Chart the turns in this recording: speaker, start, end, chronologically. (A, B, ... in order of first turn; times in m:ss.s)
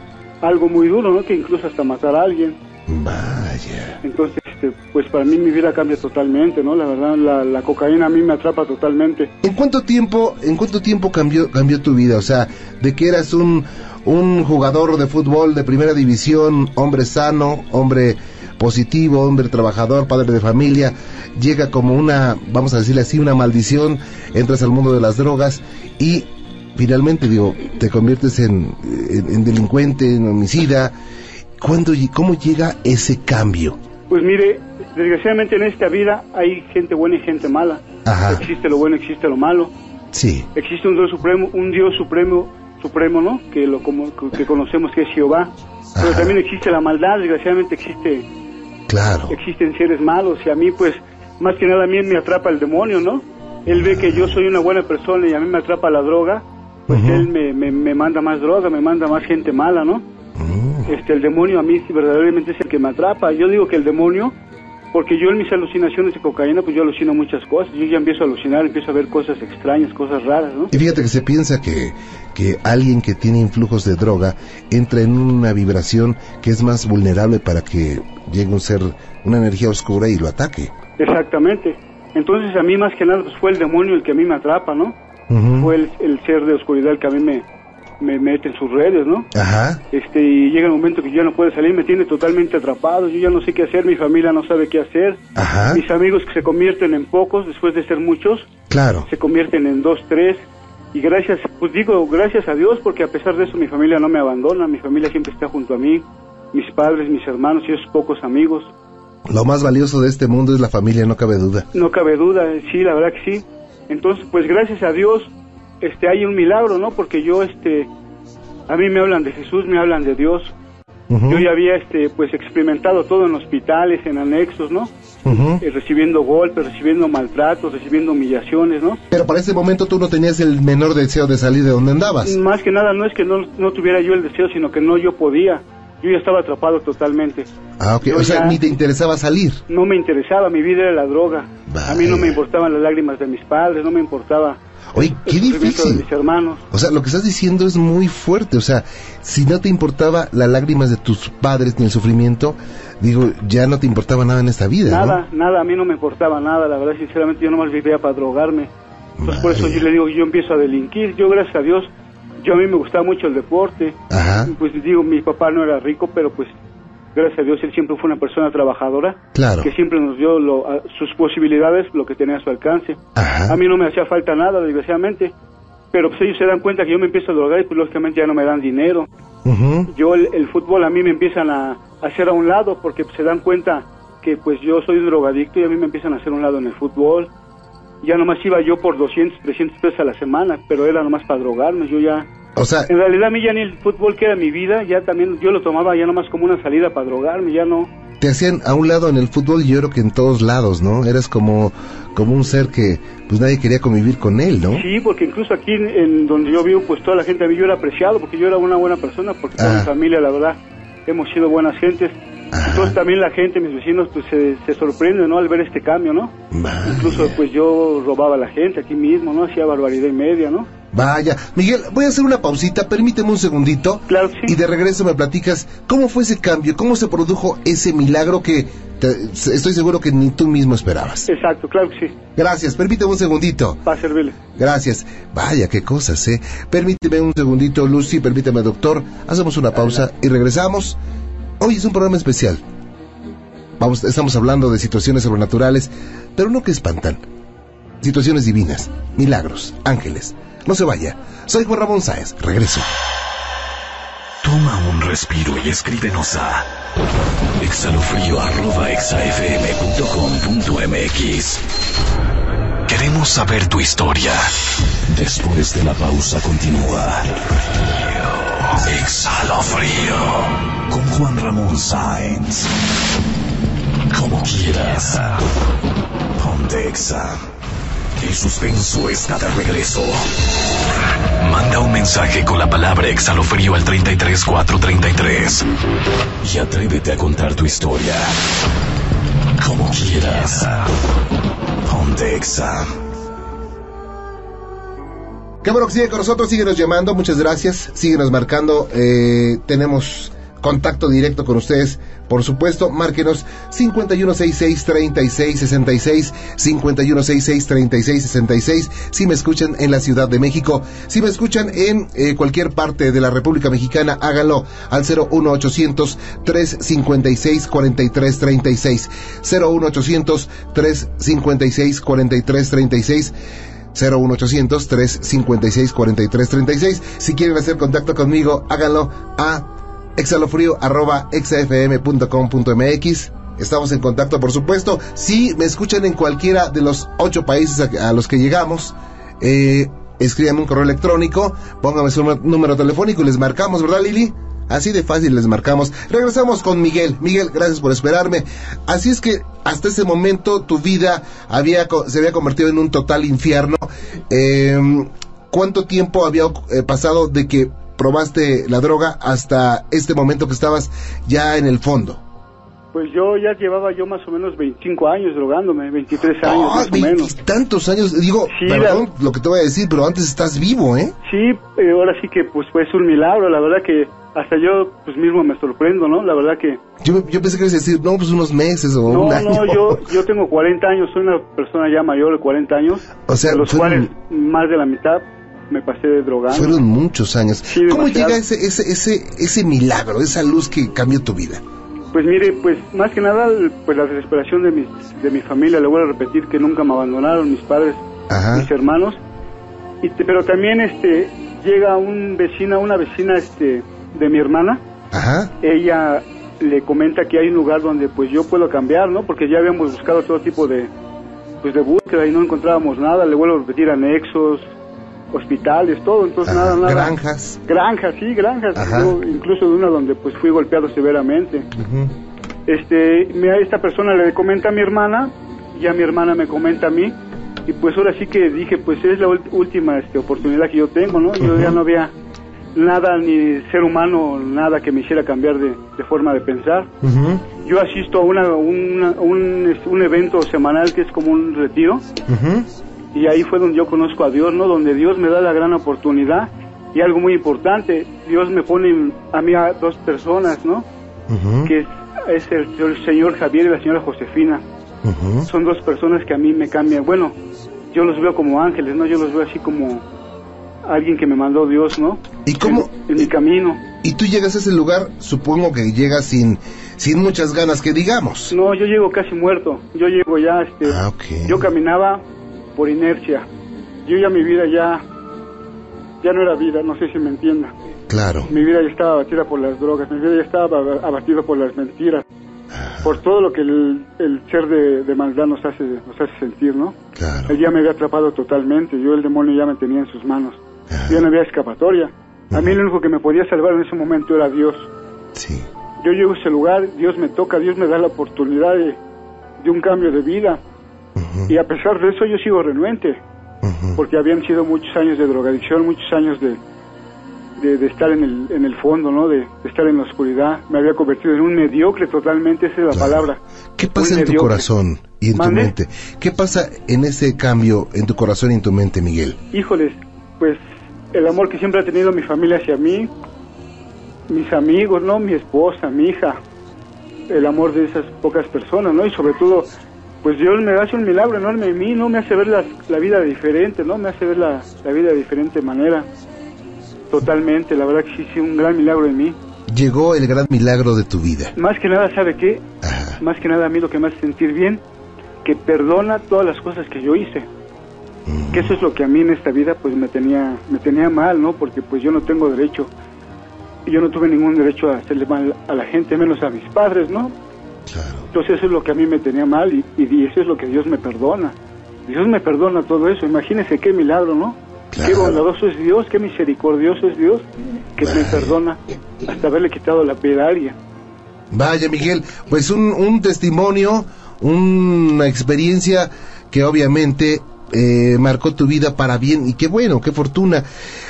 0:00.4-0:02.6 A
0:02.9-0:04.0 B
0:04.0-0:09.3 A
0:09.4-0:31.0 B
0:31.6-0:33.8 B
0:34.1-0:39.7 A
0:38.0-0:38.5 B
0:40.1-0:40.5 B
0:40.5-0:48.2 A
0:46.0-0:46.4 B
0:48.9-0:49.4 B
0:49.3-1:00.0 A
0:53.7-0:54.4 B
0:56.9-0:57.3 B
1:00.4-1:00.9 B
1:00.8-1:04.3 A
1:04.9-1:10.7 A
1:10.7-1:20.7 B
1:21.0-1:24.9 A
1:25.3-1:25.7 B
1:25.6-1:27.4 A
1:28.0-1:29.3 A
1:29.3-1:29.8 B
1:29.9-1:35.2 A
1:35.4-1:35.8 B
1:35.7-1:38.5 A
1:38.7-1:39.1 B
1:39.1-1:48.7 A
1:49.3-1:51.7 B
1:51.7-1:57.9 A
1:58.7-2:00.5 A
2:01.1-2:01.5 B
2:01.3-2:04.9 A
2:05.2-2:05.6 B
2:05.6-2:09.0 A
2:09.1-2:12.4 B
2:12.2-2:17.5 A
2:17.8-2:19.6 B
2:18.0-2:18.6 A
2:19.7-2:26.6 A
2:21.7-2:22.4 B
2:24.9-2:26.0 B
2:26.7-2:35.2 B
2:34.9-2:38.7 A
2:39.2-2:39.9 B
2:39.2-2:46.5 A
2:44.1-2:44.5 B
2:47.1-2:55.3 A
2:49.3-2:49.7 B
2:53.2-2:53.6 B
2:55.9-2:59.1 A
2:59.4-2:59.9 B
2:59.9-3:07.3 A
3:08.0-3:12.3 A
3:12.6-3:12.9 B
3:12.9-3:17.9 A
3:18.2-3:24.8 B
3:24.7-3:40.7 A
3:29.6-3:29.9 B
3:32.5-3:33.0 B
3:36.5-3:37.4 B
3:40.9-3:51.3 B
3:44.1-3:44.5 A
3:51.3-3:52.1 A
3:52.4-3:53.8 B
3:53.8-3:54.4 A
3:54.6-4:01.0 B
4:01.6-4:02.6 B
4:03.8-4:07.2 B
4:08.0-4:12.9 B
4:14.4-4:16.7 C
4:17.6-4:21.6 C
4:22.8-4:24.5 C
4:25.1-4:32.7 C
4:34.1-4:35.5 C
4:36.3-4:37.4 C
4:38.2-4:40.5 C
4:41.4-4:45.7 C
4:46.4-4:48.3 C
4:49.6-4:50.9 C
4:51.8-4:52.9 C
4:55.6-5:23.3 B
5:23.9-6:02.2 B
6:02.9-6:07.3 A
6:06.4-6:11.1 B
6:08.5-6:09.0 A
6:11.2-6:16.8 A
6:17.0-6:20.0 B
6:19.1-6:26.7 A
6:23.2-6:24.1 B
6:26.5-6:31.6 B
6:27.7-6:28.4 A
6:32.1-6:39.2 A
6:38.3-6:38.7 B
6:40.0-6:44.8 A
6:45.1-6:45.5 B
6:45.6-6:50.9 A
6:51.6-6:54.7 A
6:55.3-6:57.1 A
6:56.4-6:57.6 B
6:57.6-7:01.7 A
6:58.7-6:59.2 B
7:01.7-7:02.1 B
7:02.7-7:07.1 A
7:07.7-7:12.1 A
7:11.5-7:11.7 B
7:12.7-7:16.9 A
7:17.0-7:17.4 B
7:17.6-7:22.0 A
7:22.3-7:22.7 B
7:23.1-7:30.8 A
7:31.3-7:31.7 B
7:31.6-7:34.6 A
7:35.0-7:35.5 B
7:35.4-7:37.4 A
7:37.9-7:40.0 A
7:40.8-7:43.8 A
7:42.4-7:43.3 B
7:44.0-7:48.5 B
7:48.5-7:52.2 A
7:50.8-7:51.7 B
7:52.8-7:53.4 A
7:54.0-7:55.0 A
7:56.2-7:57.7 A
7:58.1-7:58.5 B
7:58.4-8:02.2 A
8:02.7-8:03.1 B
8:03.0-8:06.9 A
8:07.1-8:07.6 B
8:07.5-8:14.9 A
8:10.9-8:11.2 B
8:12.5-8:12.8 B
8:15.3-8:15.7 B
8:16.0-8:19.0 A
8:19.6-8:20.6 A
8:21.2-8:21.6 B
8:21.5-8:23.2 A
8:23.6-8:24.0 B
8:24.0-8:26.6 A
8:27.6-8:33.4 A
8:32.9-8:39.4 B
8:33.9-8:34.6 A
8:35.3-8:35.7 A
8:39.5-8:40.6 A
8:41.1-8:43.1 A
8:44.3-8:46.4 A
8:47.3-8:49.7 A
8:50.2-8:56.1 A
8:57.1-8:59.3 A
8:59.7-9:01.5 B
9:01.6-9:02.6 A
9:02.8-9:03.2 B
9:03.2-9:04.8 A
9:05.4-9:07.5 A
9:08.2-9:08.8 B
9:08.5-9:12.9 A
9:13.8-9:17.3 A
9:17.9-9:18.3 B
9:18.3-9:27.4 A
9:24.9-9:25.4 B
9:28.0-9:30.8 A
9:28.0-9:28.6 B
9:31.5-9:40.6 B